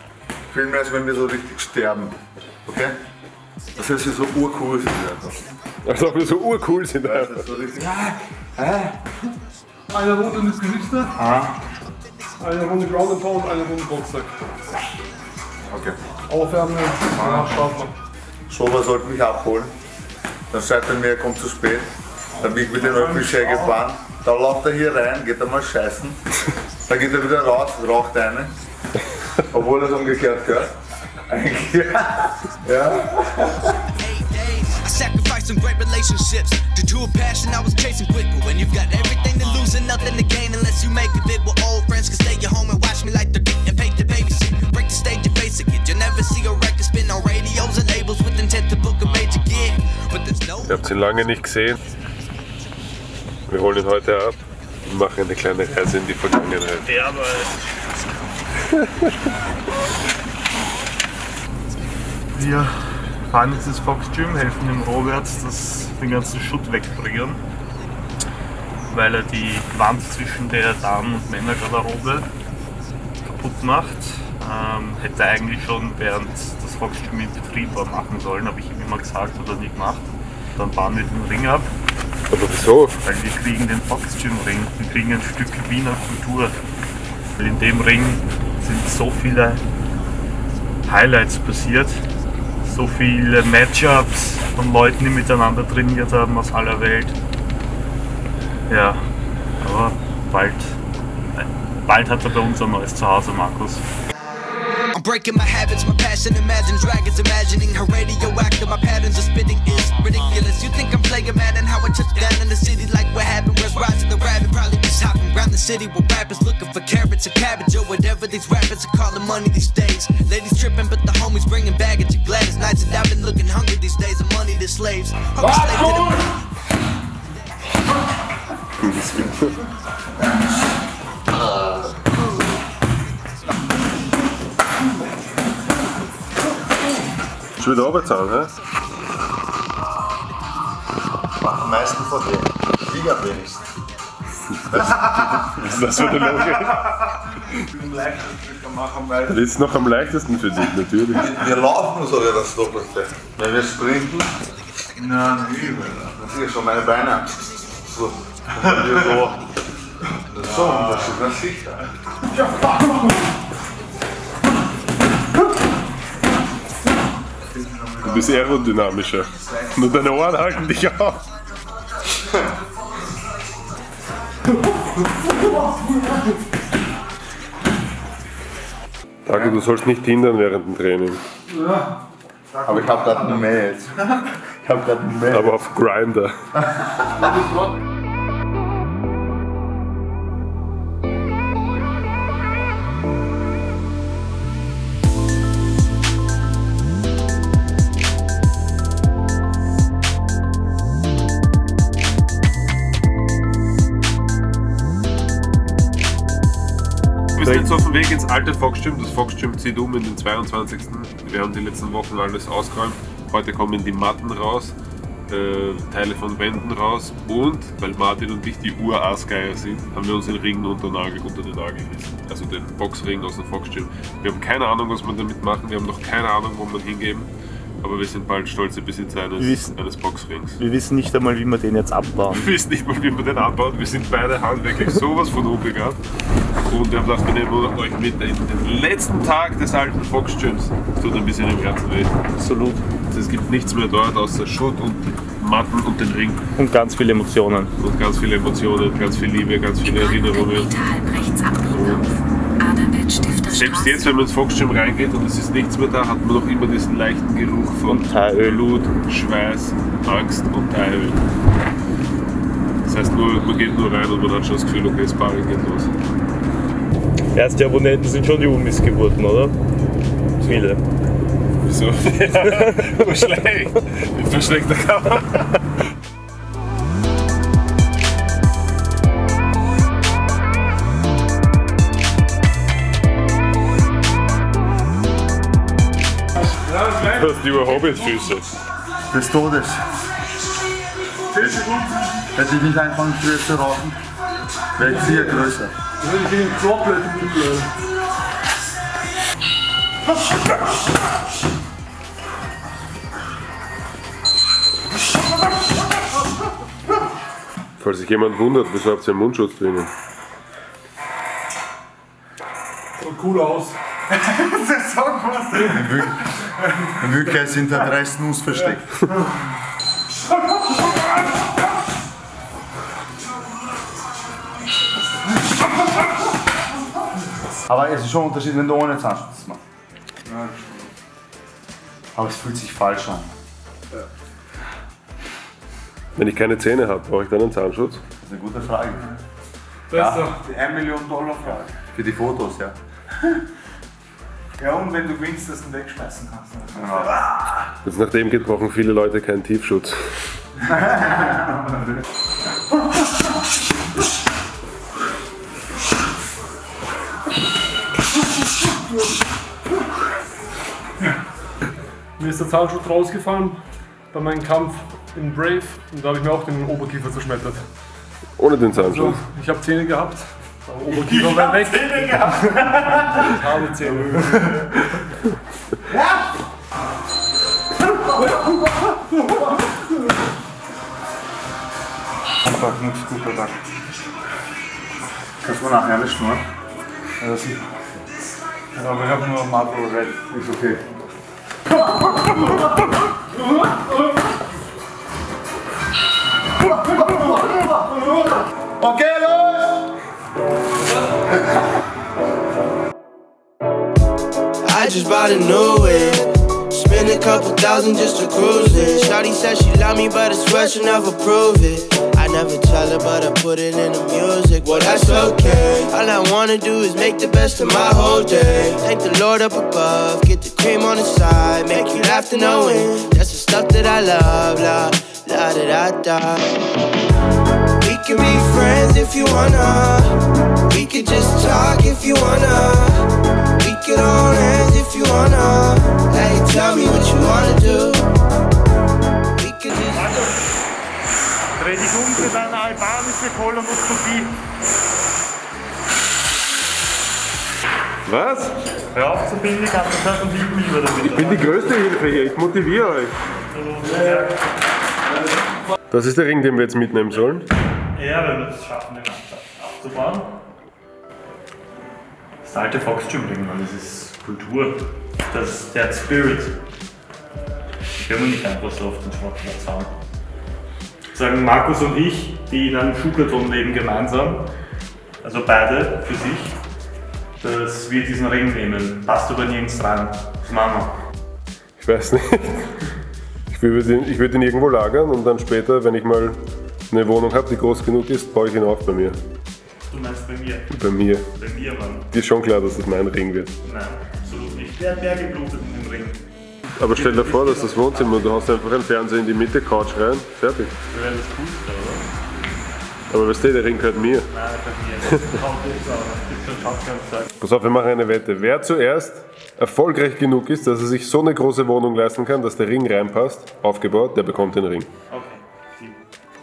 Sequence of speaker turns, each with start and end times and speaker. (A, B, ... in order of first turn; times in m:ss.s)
0:00.5-0:02.2 A
0:02.7-0:03.0 A
0:03.8-0:05.4 A
0:05.8-0:07.4 B
0:07.0-0:08.1 A
0:09.9-0:11.1 C
0:12.4-0:14.3 C
0:15.7-0:16.0 A
0:16.3-0:17.9 C
0:17.2-0:17.6 A
0:18.5-0:19.7 A
0:20.5-0:21.9 A
0:22.4-0:26.2 A
0:26.9-0:28.5 A
0:29.5-0:30.7 A
0:31.3-0:33.6 A
0:34.0-0:50.7 D
0:50.6-0:51.8 B
0:53.5-0:56.9 B
0:56.8-0:58.0 E
1:02.3-1:07.4 E
1:08.9-1:12.3 E
1:13.3-1:21.7 E
1:22.3-1:23.0 B
1:23.0-1:26.6 E
1:27.4-1:29.6 E
1:30.9-1:32.0 E
1:32.6-1:37.2 E
1:38.7-1:39.1 E
1:39.6-1:40.8 E
1:41.4-1:43.8 E
1:44.9-2:06.2 D
2:05.7-2:06.0 A
2:08.8-2:09.6 B
2:11.4-2:11.8 A
2:17.6-2:18.5 B
2:21.4-2:23.7 A
2:24.6-2:27.1 B
2:24.7-2:26.0 A
2:27.8-2:29.4 A
2:29.3-2:31.5 B
2:31.2-2:34.3 A
2:36.2-2:37.3 A
2:37.9-2:39.4 A
2:40.3-2:41.8 A
2:48.0-2:51.2 B
2:59.3-3:01.2 B
3:02.6-3:05.6 A
3:05.3-3:06.3 B
3:06.6-3:07.4 A
3:27.4-3:34.8 B
3:35.3-3:50.6 B
3:49.4-3:49.8 E
3:50.6-3:52.5 E
3:52.3-3:56.0 B
3:56.7-4:02.2 B
4:02.4-4:02.8 E
4:03.1-4:06.4 B
4:06.6-4:07.7 E
4:07.8-4:11.1 B
4:09.9-4:11.8 F
4:11.7-4:12.1 B
4:12.6-4:14.0 F
4:13.3-4:21.2 B
4:17.8-4:18.8 E
4:22.8-4:25.9 B
4:27.3-4:29.6 E
4:30.4-4:30.7 B
4:30.4-4:30.8 E
4:31.6-4:35.6 B
4:32.3-4:32.7 E
4:47.0-4:48.6 B
4:49.1-4:49.8 A
4:51.3-4:51.7 A
4:52.3-4:54.0 A
4:54.8-4:55.7 A
4:54.8-4:55.2 C
4:56.0-4:57.7 C
5:07.8-5:09.9 B
5:13.0-5:13.8 C
5:15.6-5:16.2 A
5:16.9-5:19.0 A
5:27.7-5:29.6 A
5:30.3-5:30.6 A
5:32.1-5:33.3 A
5:36.2-5:38.0 B
5:38.2-5:39.1 A
5:39.9-5:40.4 C
5:39.9-5:42.8 A
5:46.7-5:47.2 A
5:47.8-5:50.3 B
5:51.0-5:51.2 A
6:02.2-6:07.7 C
6:08.4-6:09.2 B
6:08.8-6:14.7 C
6:11.1-6:12.3 E
6:22.4-6:23.6 A
6:25.4-6:26.4 A
6:27.2-6:27.7 A
6:28.7-6:30.8 A
6:31.9-6:32.6 A
6:36.7-6:37.9 A
6:38.8-6:39.9 A
6:44.6-7:06.5 G
7:07.8-7:13.0 G
7:13.6-7:18.1 G
7:19.4-7:20.2 G
7:20.0-7:20.4 E
7:21.6-7:24.4 E
7:28.1-7:28.6 B
7:28.9-7:31.7 E
7:31.1-7:33.2 B
7:33.5-7:34.4 E
7:35.9-7:37.5 B
7:37.9-7:40.3 E
7:42.4-7:46.6 E
7:48.0-7:49.9 E
7:51.1-7:54.5 E
7:55.2-7:56.6 E
7:57.4-8:00.9 E
8:01.8-8:02.7 B
8:03.5-8:09.2 B
8:09.9-8:10.7 E
8:10.7-8:11.3 B
8:11.3-8:12.1 E
8:12.1-8:13.5 B
8:13.6-8:16.2 E
8:16.8-8:20.7 B
8:16.9-8:18.4 E
8:20.9-8:22.1 E
8:23.1-8:24.3 B
8:24.3-8:27.3 E
8:27.4-8:34.9 B
8:35.1-8:36.0 E